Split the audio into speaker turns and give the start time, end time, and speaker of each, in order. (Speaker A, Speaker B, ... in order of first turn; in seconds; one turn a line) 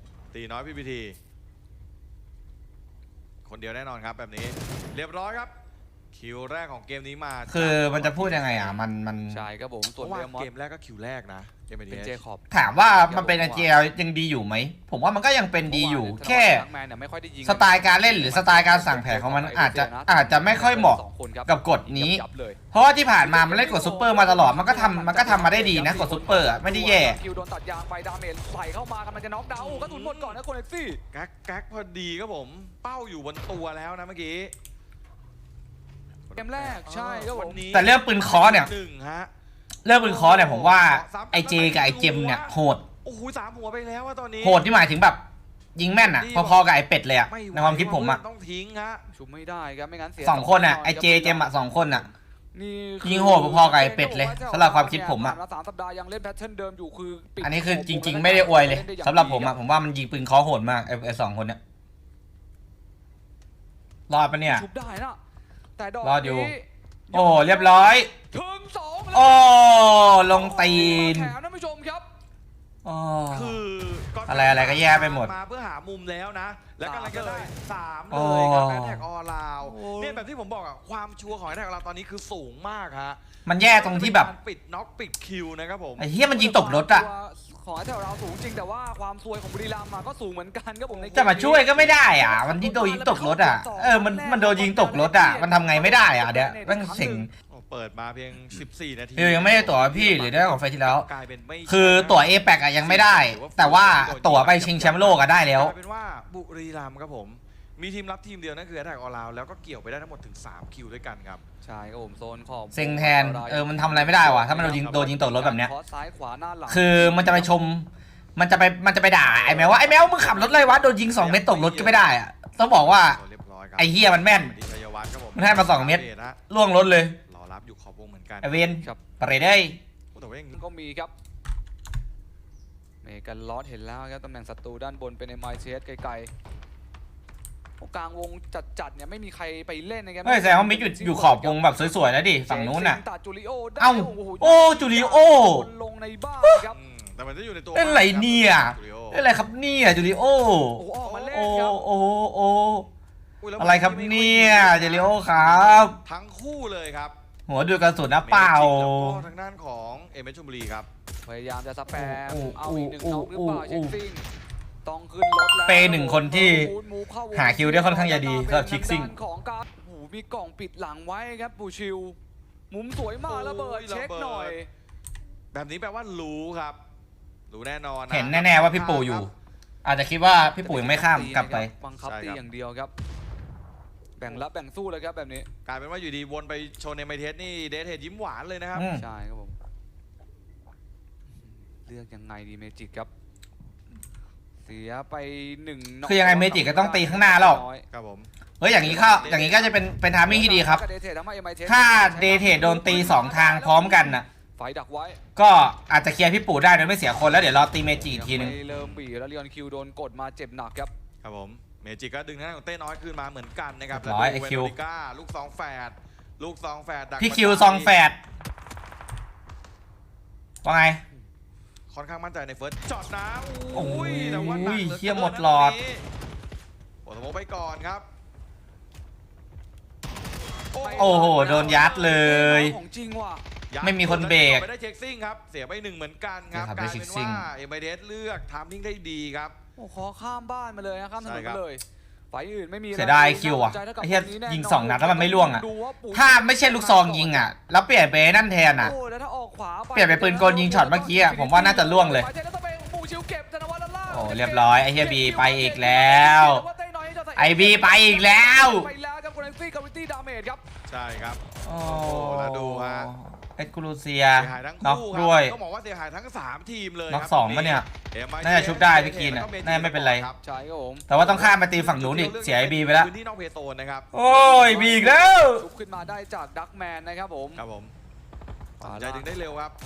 Speaker A: 0.3-1.2
Speaker A: 3.4-5.5
Speaker A: 6.1-8.8
Speaker B: 7.5-9.4
Speaker C: 9.3-10.5
Speaker A: 10.0-12.2
Speaker C: 11.9-13.8
Speaker B: 12.5-16.6
Speaker C: 15.7-22.6
Speaker B: 17.4-22.2
Speaker B: 22.7-27.2
Speaker C: 23.2-31.0
Speaker A: 29.6-30.4
Speaker A: 31.1-34.5
Speaker A: 36.3-39.3
Speaker C: 36.4-37.6
Speaker B: 37.7-38.7
Speaker B: 39.8-42.8
Speaker A: 40.0-42.5
Speaker A: 43.0-44.6
Speaker B: 44.4-45.2
Speaker B: 45.7-48.2
Speaker A: 46.0-46.6
Speaker A: 47.3-49.0
Speaker C: 49.1-51.5
Speaker B: 50.2-52.1
Speaker C: 52.5-59.5
Speaker B: 53.0-55.4
Speaker B: 57.4-61.6
Speaker B: 64.1-64.6
Speaker C: 64.5-65.2
Speaker C: 65.8-72.0
Speaker B: 66.0-66.5
Speaker B: 67.1-68.1
Speaker B: 69.1-71.3
Speaker B: 72.8-73.6
Speaker A: 73.3-86.1
Speaker B: 74.3-75.3
Speaker C: 76.8-77.5
Speaker B: 78.1-79.0
Speaker C: 79.6-80.2
Speaker B: 83.5-84.3
Speaker B: 86.0-87.1
Speaker C: 86.3-97.3
Speaker A: 90.9-92.0
Speaker B: 91.1-97.3
Speaker A: 97.5-111.4
Speaker B: 99.2-101.0
Speaker B: 101.7-105.7
Speaker C: 111.6-117.5
Speaker B: 112.7-115.7
Speaker A: 114.5-115.1
Speaker B: 116.7-123.2
Speaker A: 119.2-122.1
Speaker A: 122.7-126.4
Speaker B: 123.8-124.5
Speaker B: 125.3-127.2
Speaker A: 127.3-128.5
Speaker B: 128.4-129.8
Speaker A: 130.1-130.6
Speaker C: 130.5-131.1
Speaker C: 133.0-136.3
Speaker C: 137.8-141.9
Speaker B: 140.2-143.0
Speaker C: 142.4-146.8
Speaker B: 143.8-145.7
Speaker A: 146.7-149.2
Speaker B: 147.7-152.9
Speaker C: 150.8-151.8
Speaker A: 153.4-157.1
Speaker B: 153.6-156.0
Speaker C: 155.5-155.9
Speaker B: 157.5-159.2
Speaker A: 158.2-160.9
Speaker C: 161.2-164.2
Speaker B: 161.9-163.9
Speaker C: 164.8-172.2
Speaker B: 165.7-166.7
Speaker B: 167.3-169.1
Speaker C: 172.7-174.7
Speaker A: 173.2-174.6
Speaker A: 175.5-176.8
Speaker A: 177.5-179.3
Speaker B: 178.1-179.3
Speaker B: 179.8-181.7
Speaker C: 180.6-182.9
Speaker A: 182.0-182.4
Speaker C: 184.2-185.5
Speaker A: 185.6-188.9
Speaker B: 188.7-189.0
Speaker C: 188.9-189.6
Speaker C: 191.4-193.1
Speaker C: 194.6-197.8
Speaker B: 196.1-197.6
Speaker A: 197.9-199.8
Speaker B: 198.6-200.8
Speaker C: 198.9-199.3
Speaker C: 200.2-205.2
Speaker B: 201.7-204.2
Speaker B: 205.3-208.6
Speaker C: 208.0-210.9
Speaker A: 208.7-209.0
Speaker A: 211.2-217.9
Speaker B: 213.9-214.7
Speaker B: 217.2-218.2
Speaker B: 220.6-221.0
Speaker A: 221.9-226.0
Speaker B: 223.7-225.8
Speaker A: 227.0-228.1
Speaker A: 230.7-232.2
Speaker C: 230.8-233.4
Speaker B: 230.9-232.8
Speaker A: 233.7-239.6
Speaker B: 233.8-234.7
Speaker B: 236.5-237.5
Speaker C: 239.8-247.5
Speaker A: 241.2-241.6
Speaker B: 242.9-248.9
Speaker C: 248.8-260.6
Speaker B: 249.9-252.3
Speaker B: 254.1-256.6
Speaker B: 257.4-258.9
Speaker A: 260.9-263.1
Speaker B: 261.6-265.5
Speaker A: 264.3-270.4
Speaker B: 267.1-267.9
Speaker B: 268.4-270.3
Speaker C: 270.4-271.1
Speaker B: 271.1-273.1
Speaker A: 271.1-274.1
Speaker B: 274.1-275.6
Speaker C: 274.2-277.6
Speaker A: 277.6-277.9
Speaker A: 278.8-279.7
Speaker C: 278.8-279.3